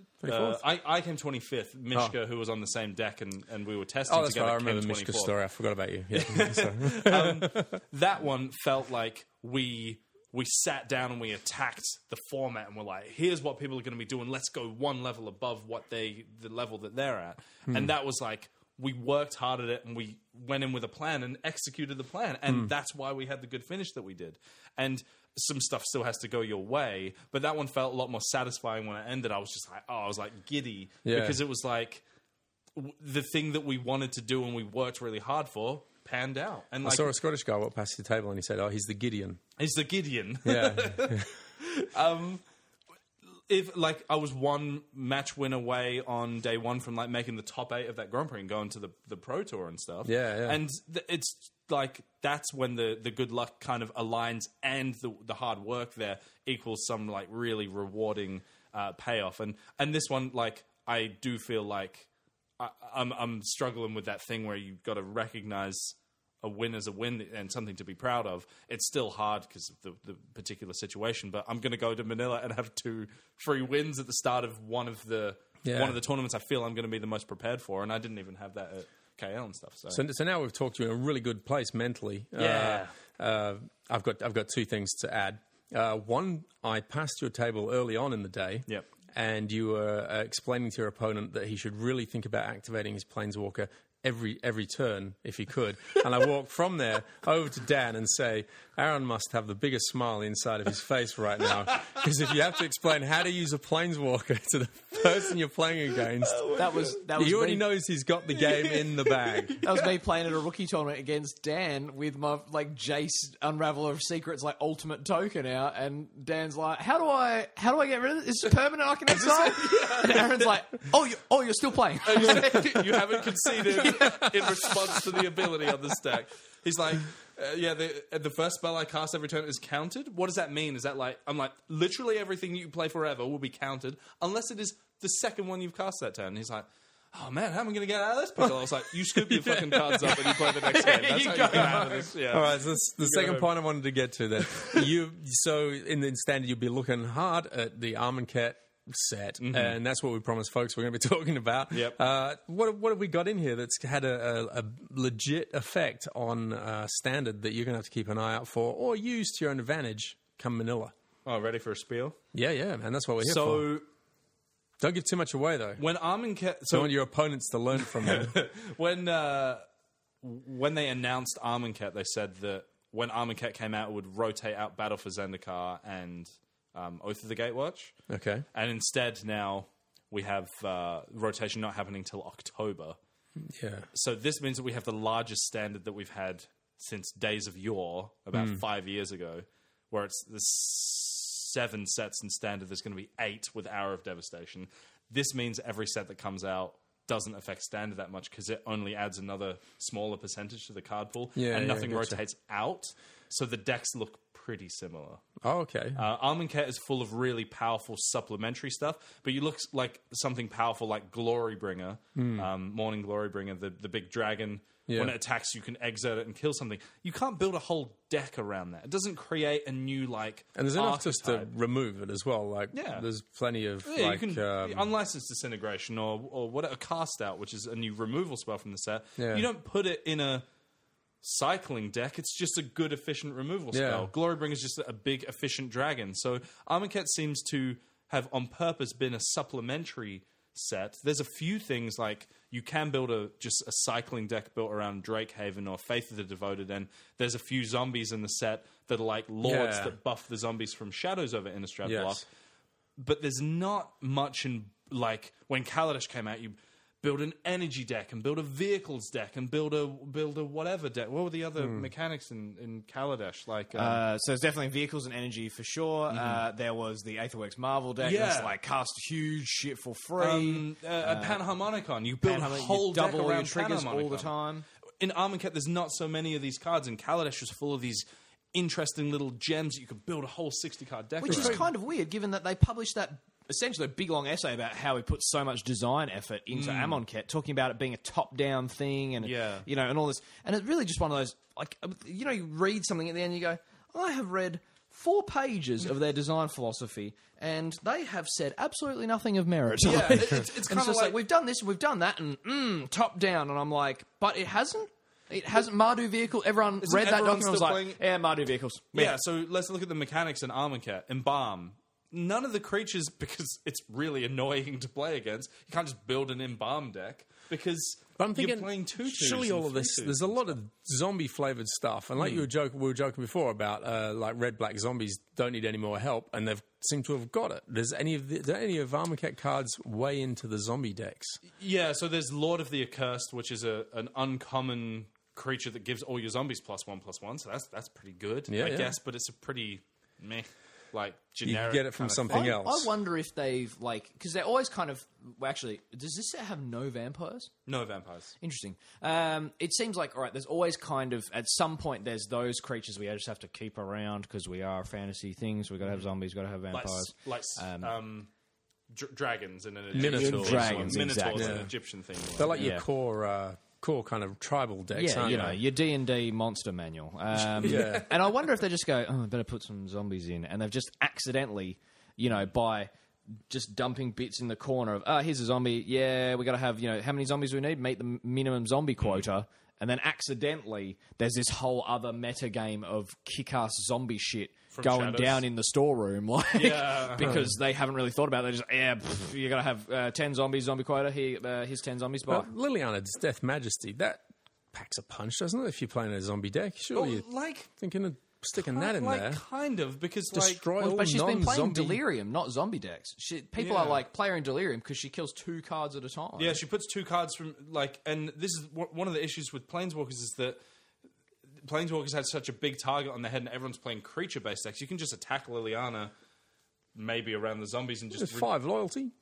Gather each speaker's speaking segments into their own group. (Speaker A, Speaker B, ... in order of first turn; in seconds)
Speaker A: 0.2-0.6, 4.1-7.8, 31.1-31.4, 36.8-39.4, 40.5-41.3, 50.0-50.6, 75.7-76.0, 79.9-109.6, 139.1-140.3, 142.3-160.9, 162.3-163.7, 164.8-165.8, 166.7-168.3, 178.1-178.4, 183.4-183.9, 188.3-188.6, 201.4-202.2, 205.4-206.0, 212.2-212.5, 214.9-215.1, 220.6-224.9, 229.2-229.5, 233.7-234.1, 249.4-249.9, 251.8-252.2, 261.6-261.9, 281.3-281.6, 318.2-331.4, 338.5-338.9, 341.4-342.9, 359.9-361.7, 362.4-365.6, 367.6-368.1, 387.2-387.5, 392.3-399.4, 400.3-402.0, 418.1-419.1
Speaker B: 0.3-5.3, 6.1-32.0, 32.8-37.1, 39.6-42.4, 43.5-62.1, 62.6-80.0, 82.4-82.9, 106.2-107.0, 108.5-109.9, 119.1-120.5, 122.0-143.5, 144.5-144.8, 149.4-149.8, 151.7-152.0, 161.2-162.2, 163.2-163.8, 165.8-167.0, 167.8-169.6, 170.2-177.9, 178.5-183.0, 183.9-205.2, 206.0-221.5, 222.7-223.1, 223.8-230.4, 231.2-252.2, 253.0-264.0, 266.1-266.4, 268.0-268.6, 270.2-274.3, 275.0-281.7, 286.5-287.0, 289.2-289.7, 299.8-301.2, 306.8-308.0, 308.9-320.5, 322.2-322.4, 331.5-342.5, 347.7-348.4, 356.7-358.3, 358.9-362.7, 367.6-368.1, 379.0-379.3, 384.7-385.4, 386.5-387.4, 396.9-397.7, 398.6-400.7, 403.6-404.0, 406.4-410.6, 411.6-416.1, 416.9-418.5
Speaker C: 106.5-107.7, 109.6-125.0, 140.3-142.1, 263.7-271.4, 272.2-274.6, 281.2-309.1, 342.3-347.5, 348.4-357.9, 360.0-361.7, 362.5-362.8, 364.9-372.9, 373.5-392.5, 400.8-406.6